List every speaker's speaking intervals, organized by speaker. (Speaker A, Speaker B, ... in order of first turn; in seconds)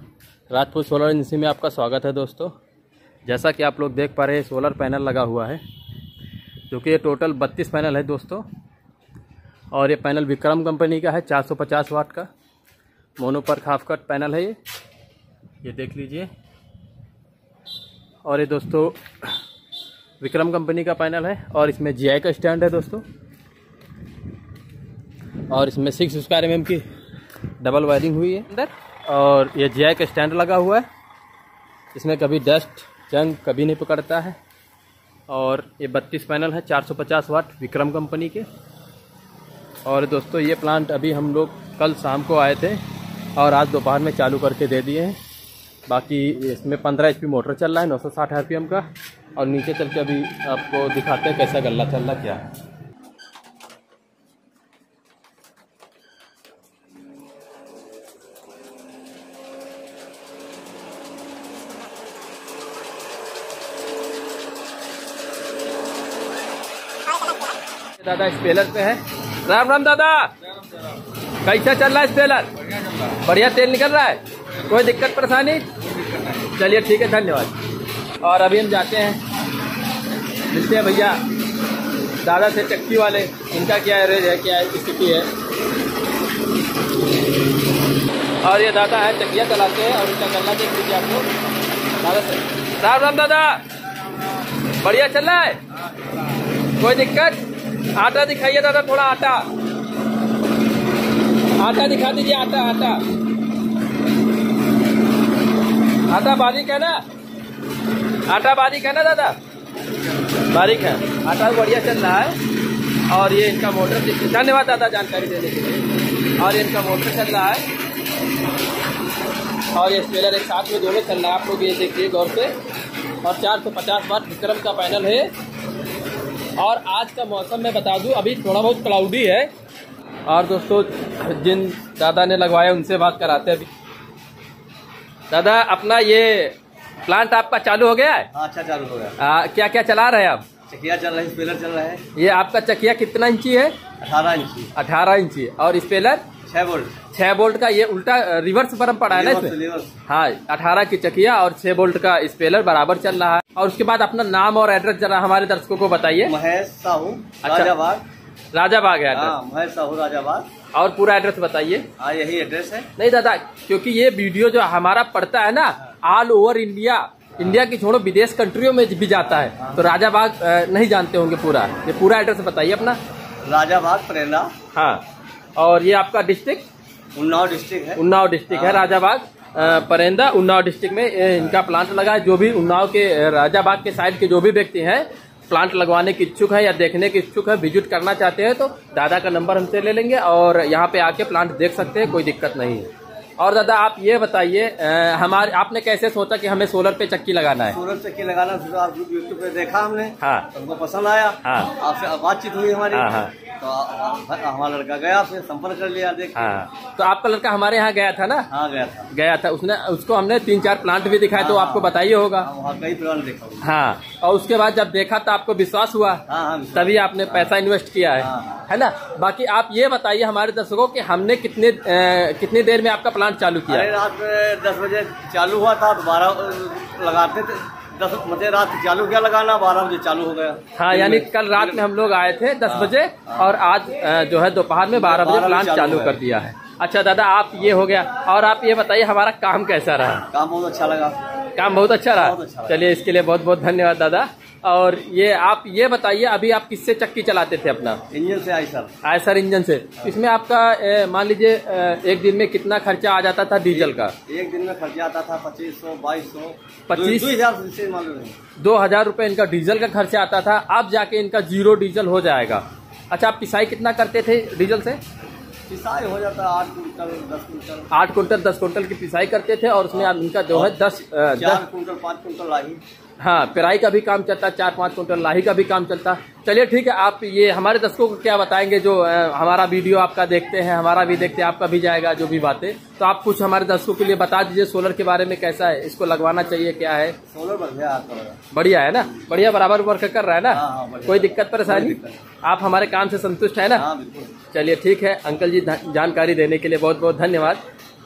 Speaker A: 0.5-2.5, 3.2-5.6, 6.7-8.4, 9.7-12.3, 13.2-14.6, 15.6-16.3, 18.2-19.3, 20.2-23.0, 25.5-26.9, 27.6-30.9, 31.9-34.4, 35.3-38.5, 39.8-42.8, 43.4-45.2, 45.9-52.5, 68.0-70.3, 71.4-77.5, 78.2-79.2, 80.5-81.2, 82.2-85.3, 88.4-91.3, 92.0-93.6, 94.8-95.6, 96.8-97.4, 97.9-99.5, 101.5-103.0, 106.0-107.0, 108.2-109.4, 110.5-112.4, 113.1-115.8, 116.4-117.7, 119.7-122.5, 123.2-125.3, 126.6-129.5, 130.2-133.7, 135.3-138.3, 139.2-140.4, 142.1-143.8, 144.7-146.2, 147.1-156.3, 157.4-157.7, 158.5-159.3, 160.7-161.9, 163.0-173.0, 174.7-175.0, 175.6-176.6, 178.0-197.8, 200.2-200.5, 201.4-201.8, 202.9-203.3, 206.3-208.5, 209.1-212.5, 213.6-216.2, 216.7-223.9, 230.8-240.3, 241.6-248.0, 249.0-254.1, 256.9-257.4, 258.6-265.0, 267.9-271.6, 273.2-287.2, 288.5-293.9, 294.5-297.6
Speaker B: 138.3-139.2, 140.7-142.0, 144.0-144.7, 146.5-146.9, 149.1-149.9, 156.2-158.0, 159.1-160.5, 162.0-162.9, 169.6-169.9, 173.4-174.5, 177.1-178.9, 179.6-179.8, 197.7-206.6, 208.5-209.1, 211.4-213.7, 216.3-217.5, 218.2-218.7, 223.7-231.8, 232.7-233.5, 234.9-236.2, 240.3-241.2, 242.1-242.9, 248.1-248.9, 253.7-258.4, 265.7-267.9, 269.9-270.8, 271.3-272.8, 287.3-288.4, 290.5-292.2, 293.7-294.3